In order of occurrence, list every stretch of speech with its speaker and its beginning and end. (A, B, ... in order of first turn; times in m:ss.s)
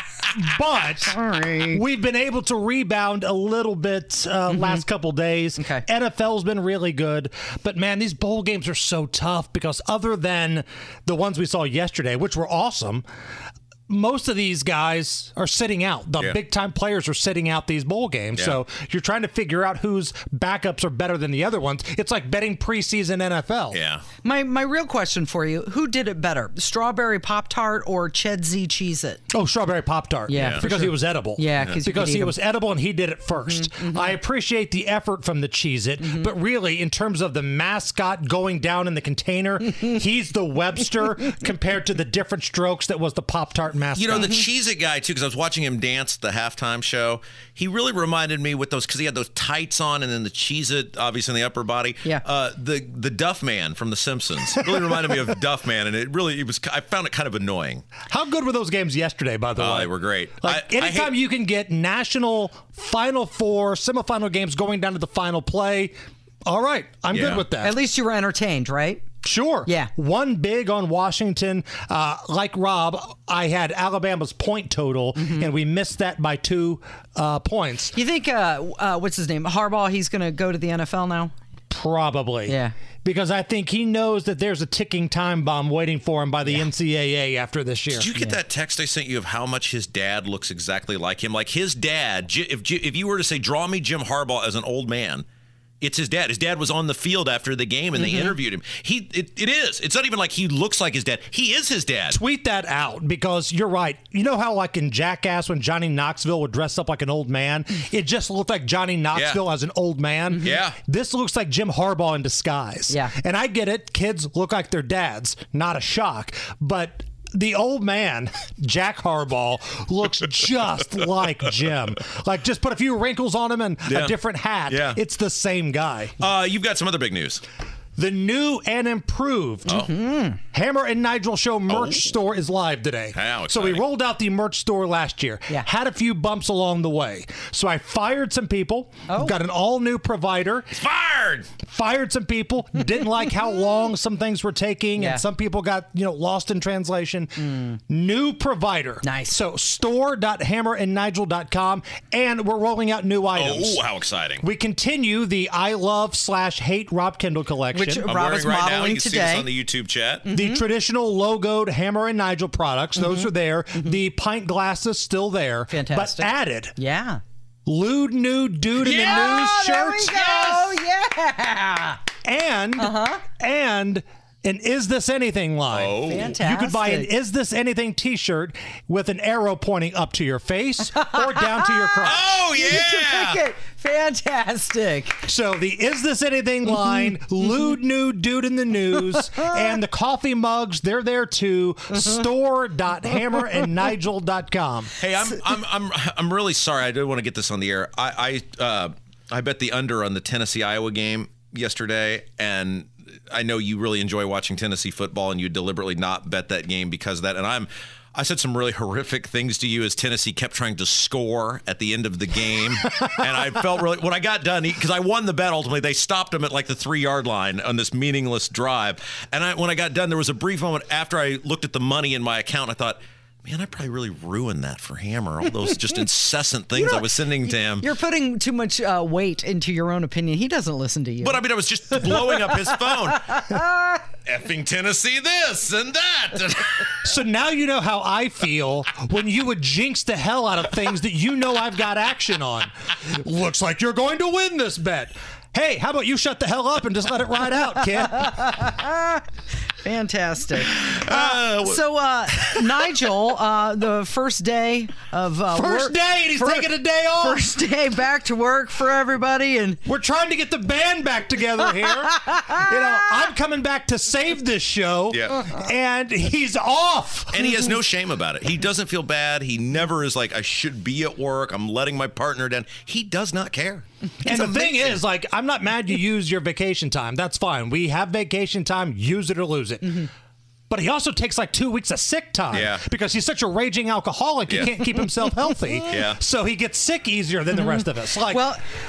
0:00.3-0:01.2 A
0:01.0-0:01.8 B
0:01.7-0:13.1 A
0:04.5-0:04.8 B
0:05.6-0:05.8 B
0:13.9-0:23.8 A
0:18.4-0:18.6 C
0:23.7-0:24.0 C
0:24.2-0:29.2 B
0:29.3-0:44.4 A
0:30.3-0:32.4 B
0:30.4-0:30.7 C
0:33.5-0:34.1 B
0:36.0-0:36.3 B
0:44.0-0:57.8 C
0:58.1-1:05.9 A
0:59.6-1:01.2 C
1:06.5-1:07.8 A
1:07.1-1:07.5 C
1:07.6-1:09.0 B
1:09.2-1:18.0 A
1:09.6-1:09.9 B
1:15.2-1:15.5 B
1:17.9-1:21.3 B
1:21.7-1:28.1 A
1:22.5-1:22.8 B
1:27.9-1:35.2 C
1:35.8-1:42.2 C
1:38.0-1:38.3 B
1:42.1-2:06.2 A
1:49.1-1:49.4 C
1:50.3-1:50.6 B
1:50.4-1:50.8 C
1:52.9-1:53.1 B
2:03.9-2:04.2 C
2:04.7-2:05.0 C
2:06.2-2:07.4 C
2:08.0-2:09.9 A
2:09.7-2:10.4 B
2:10.5-2:20.7 A
2:11.7-2:12.0 C
2:13.2-2:13.8 C
2:19.1-2:19.4 B
2:20.7-2:21.5 C
2:21.6-2:33.8 A
2:25.0-2:25.2 B
2:29.0-2:29.4 B
2:33.3-2:34.4 C
2:34.4-2:38.1 A
2:37.7-2:39.5 B
2:38.0-2:40.3 C
2:40.2-2:40.6 B
2:40.3-2:46.8 A
2:43.0-2:44.0 B
2:45.7-2:47.2 B
2:47.7-2:50.8 A
2:48.8-2:49.4 C
2:48.9-2:52.0 B
2:52.2-3:02.3 A
2:52.8-2:53.2 B
2:55.7-2:56.3 C
2:56.1-2:57.1 B
3:01.0-3:05.2 B
3:02.0-3:03.4 C
3:05.2-3:14.9 A
3:09.1-3:09.5 B
3:12.0-3:12.2 B
3:15.0-3:47.9 C
3:46.8-3:51.4 B
3:51.2-3:53.3 C
3:52.0-3:52.7 B
3:53.3-3:54.0 B
3:54.3-3:57.0 C
3:57.0-4:08.3 A
4:08.2-4:09.2 B
4:09.8-4:19.8 B
4:10.6-4:11.8 C
4:15.5-4:17.5 A
4:19.8-4:27.6 A
4:22.3-4:22.6 B
4:25.1-4:25.5 C
4:27.3-4:35.0 C
4:34.2-4:40.1 A
4:40.7-4:48.5 A
4:42.5-4:42.8 C
4:45.9-4:46.2 C
4:47.5-4:48.6 B